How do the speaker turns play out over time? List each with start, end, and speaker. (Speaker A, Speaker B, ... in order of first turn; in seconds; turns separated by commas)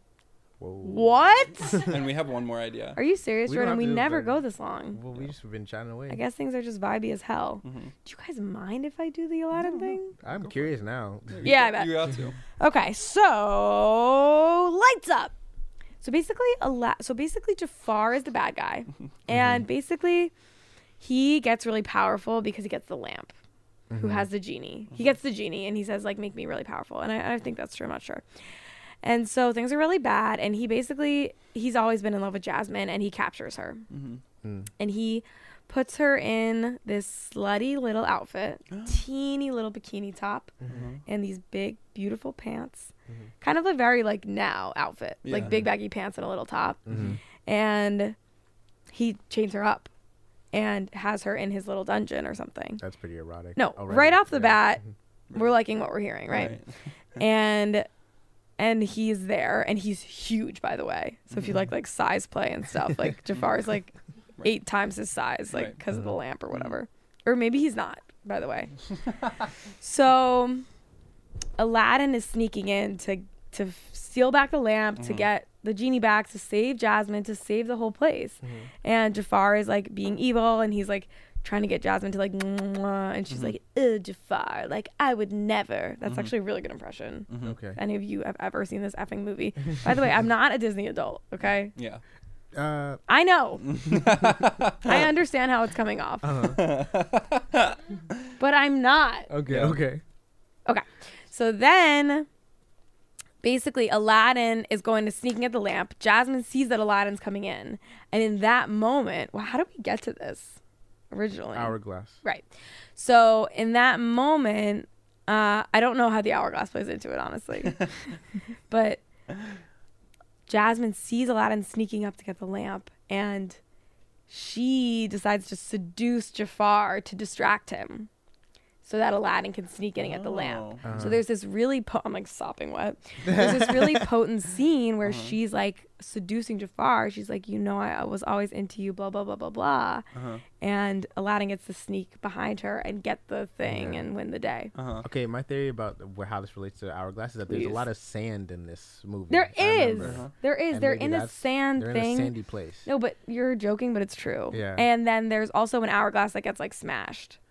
Speaker A: 0.6-1.8, Speaker B: 0.8-1.8, Speaker C: 1.7-3.0, Speaker B: 3.0-5.0, Speaker A: 3.5-4.4, Speaker A: 4.9-6.2, Speaker B: 6.1-10.1, Speaker C: 7.6-7.9, Speaker C: 9.6-10.7, Speaker A: 10.2-11.5, Speaker C: 11.3-12.4, Speaker B: 11.4-15.3, Speaker B: 16.0-20.3, Speaker A: 19.3-19.6, Speaker B: 21.0-23.3, Speaker A: 23.9-24.3, Speaker B: 24.0-28.2, Speaker B: 29.0-33.8, Speaker C: 33.9-34.2, Speaker A: 34.4-34.7, Speaker B: 34.8-40.5, Speaker C: 38.7-39.0, Speaker A: 40.6-40.9, Speaker C: 40.7-41.0, Speaker B: 41.1-46.8, Speaker C: 45.2-45.6, Speaker A: 45.4-45.7, Speaker A: 46.9-47.2, Speaker C: 46.9-47.2, Speaker B: 47.5-48.2, Speaker B: 48.9-49.9, Speaker B: 50.5-52.8, Speaker A: 52.8-54.9, Speaker B: 53.6-54.8, Speaker C: 55.3-55.5, Speaker B: 55.3-56.6, Speaker C: 56.3-56.7, Speaker B: 57.2-57.9, Speaker B: 58.6-68.7, Speaker C: 61.3-61.6, Speaker A: 65.9-66.2, Speaker B: 69.8-70.7, Speaker B: 71.6-91.7, Speaker C: 75.0-75.3, Speaker A: 78.4-78.7, Speaker C: 83.3-83.5, Speaker C: 86.1-86.3, Speaker C: 87.3-87.6, Speaker A: 87.4-87.8, Speaker C: 91.8-92.0, Speaker A: 92.5-93.0, Speaker B: 93.1-93.7, Speaker C: 93.6-95.1, Speaker B: 94.8-96.3, Speaker A: 96.2-96.6, Speaker C: 96.5-98.3, Speaker B: 98.4-99.3, Speaker A: 99.3-100.0, Speaker C: 99.5-99.8, Speaker B: 100.7-102.3, Speaker B: 103.4-110.6, Speaker B: 111.1-117.9, Speaker A: 111.5-112.2, Speaker B: 118.7-119.0, Speaker B: 120.5-123.6, Speaker B: 124.3-128.1, Speaker B: 128.8-140.1, Speaker C: 130.0-130.9, Speaker A: 130.8-131.2, Speaker A: 133.2-134.1, Speaker C: 135.0-135.4, Speaker C: 140.1-140.4, Speaker B: 140.6-144.7, Speaker A: 143.7-144.0, Speaker C: 144.8-145.1, Speaker A: 145.0-152.9, Speaker B: 147.5-147.9, Speaker B: 149.3-152.3, Speaker C: 150.0-150.3, Speaker B: 152.8-157.4, Speaker A: 154.5-154.9